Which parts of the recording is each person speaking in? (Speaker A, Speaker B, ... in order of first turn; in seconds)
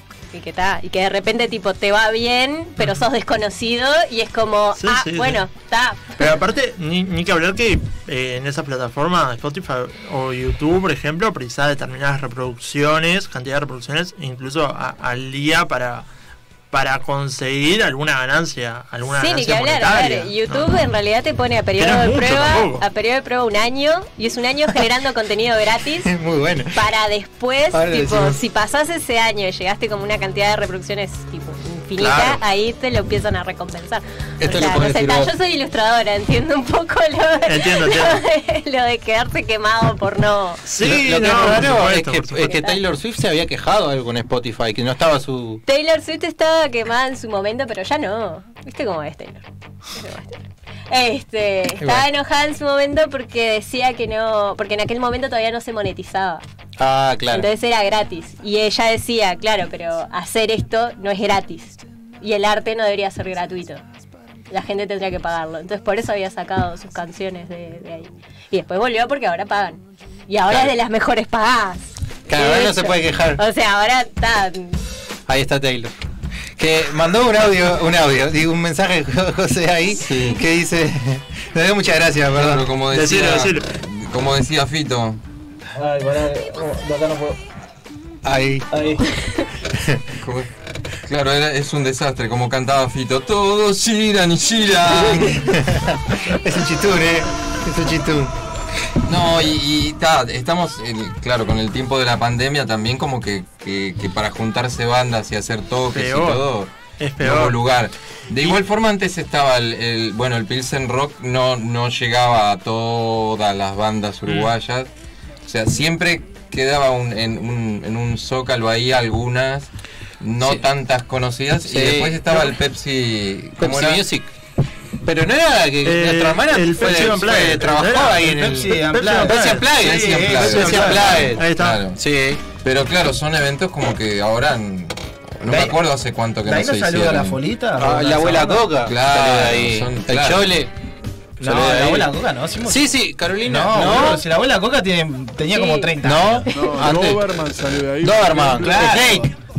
Speaker A: 0.3-6.1, 19.1-26.1, 26.7-40.6, 42.4-42.8, 45.6-50.4, 50.9-56.4, 57.3-63.8, 64.5-74.8, 145.5-145.9
Speaker B: 2.8-3.0, 4.8-5.4, 6.2-16.1, 16.7-20.7, 21.8-22.8, 32.0-32.4, 37.5-38.2, 40.6-42.5, 82.9-83.7, 105.9-106.5, 107.0-107.6, 125.8-128.2, 128.8-129.7, 130.4-131.8
Speaker C: 26.1-26.8, 27.7-28.4, 34.4-35.3, 40.8-45.6, 51.8-52.1, 56.8-57.5, 72.3-73.4, 75.3-75.9, 76.6-82.7, 88.2-88.7, 89.7-90.0, 94.9-98.3, 121.7-122.6, 123.6-124.3, 125.0-132.4, 137.8-140.7, 141.4-142.1, 142.6-144.2, 146.0-147.2, 148.0-149.3
Speaker D: 79.9-80.4, 82.3-85.2, 90.1-90.5, 91.0-95.6, 99.0-114.9, 115.4-119.7, 120.2-124.0, 129.7-132.0, 132.6-137.4, 138.8-140.5
Speaker E: 85.8-87.4, 88.7-89.1, 128.1-131.2, 135.5-135.8, 136.4-138.7, 141.4-142.9, 143.4-146.5, 148.6-149.3
Speaker F: 146.5-149.1